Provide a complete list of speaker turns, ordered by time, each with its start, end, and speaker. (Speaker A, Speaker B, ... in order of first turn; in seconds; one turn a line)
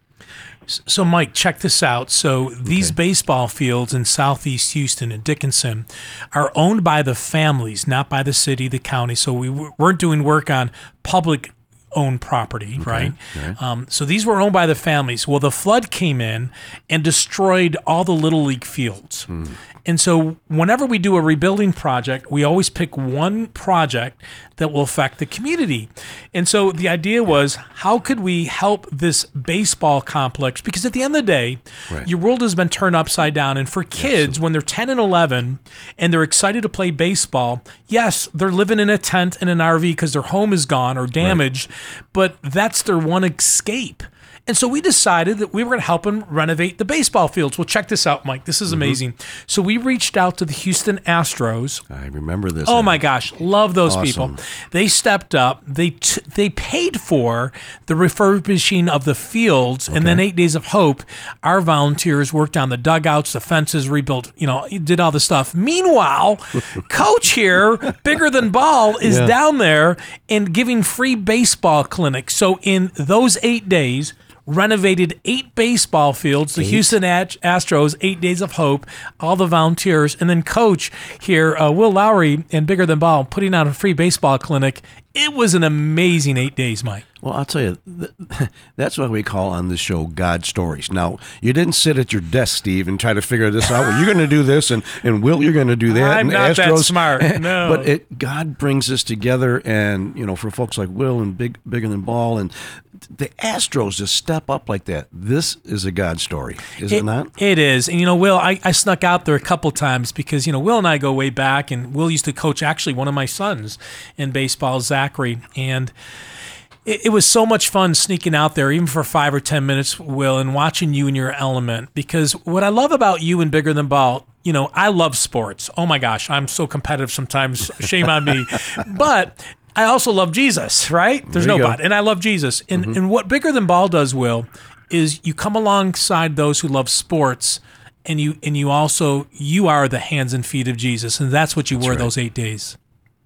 Speaker A: 0.7-19.3
Speaker B: 2.6-2.9
Speaker B: 12.8-13.6
Speaker B: 19.3-19.5
Speaker A: 19.8-51.8
Speaker B: 34.0-34.3
Speaker B: 48.7-49.0
Speaker B: 51.9-53.0
Speaker A: 52.6-87.0
Speaker B: 53.9-54.4
Speaker B: 59.9-60.2
Speaker B: 69.0-69.3
Speaker B: 76.6-76.9
Speaker B: 87.2-107.3
Speaker A: 95.9-97.9
Speaker A: 106.9-115.9
Speaker A: 116.8-142.8
Speaker B: 131.3-131.8
Speaker B: 141.8-142.1